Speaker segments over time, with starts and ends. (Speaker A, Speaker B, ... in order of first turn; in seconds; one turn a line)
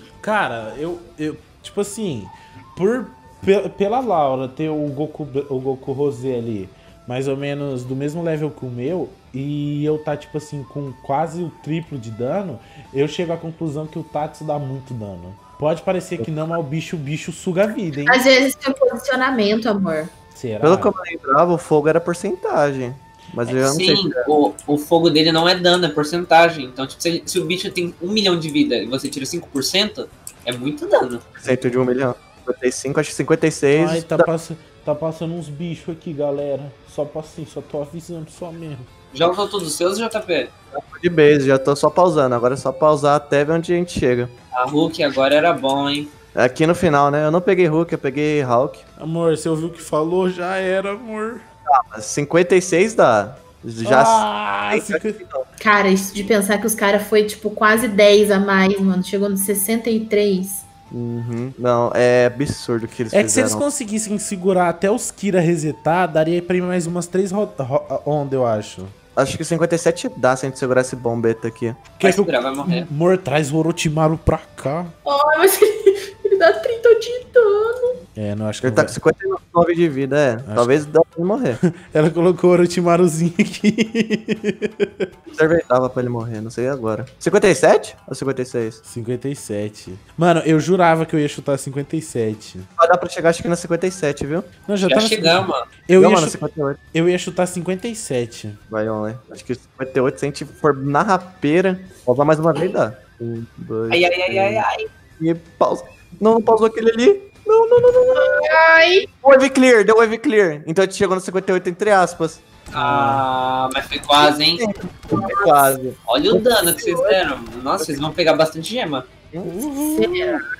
Speaker A: 0.2-18.2
Speaker B: 18.1-20.1
Speaker A: 20.3-20.9
Speaker C: 20.6-24.2
Speaker D: 23.5-31.2
Speaker C: 31.4-34.3
Speaker A: 33.7-38.9
Speaker D: 39.1-40.5
Speaker C: 40.7-44.3
Speaker D: 44.5-46.1
Speaker C: 46.3-48.8
Speaker A: 49.0-51.5
Speaker C: 51.7-55.5
Speaker A: 53.8-55.2
Speaker B: 55.6-60.6
Speaker C: 60.9-63.6
Speaker A: 63.1-68.9
Speaker C: 69.2-71.8
Speaker A: 72.0-74.9
Speaker D: 72.0-72.9
Speaker B: 75.0-78.0
Speaker A: 78.2-79.0
Speaker C: 78.6-81.6
Speaker A: 80.5-80.9
Speaker A: 81.6-85.0
Speaker C: 85.3-88.8
Speaker A: 88.8-92.7
Speaker C: 92.8-94.5
Speaker A: 94.7-96.4
Speaker D: 94.8-95.6
Speaker C: 96.0-96.8
Speaker A: 96.9-98.6
Speaker C: 98.7-104.7
Speaker D: 103.9-104.9
Speaker C: 105.2-108.5
Speaker B: 108.1-109.1
Speaker C: 109.2-112.4
Speaker A: 112.7-113.2
Speaker D: 112.7-114.6
Speaker C: 114.2-117.2
Speaker B: 115.1-115.7
Speaker D: 116.1-119.1
Speaker A: 119.4-120.4
Speaker B: 119.8-120.4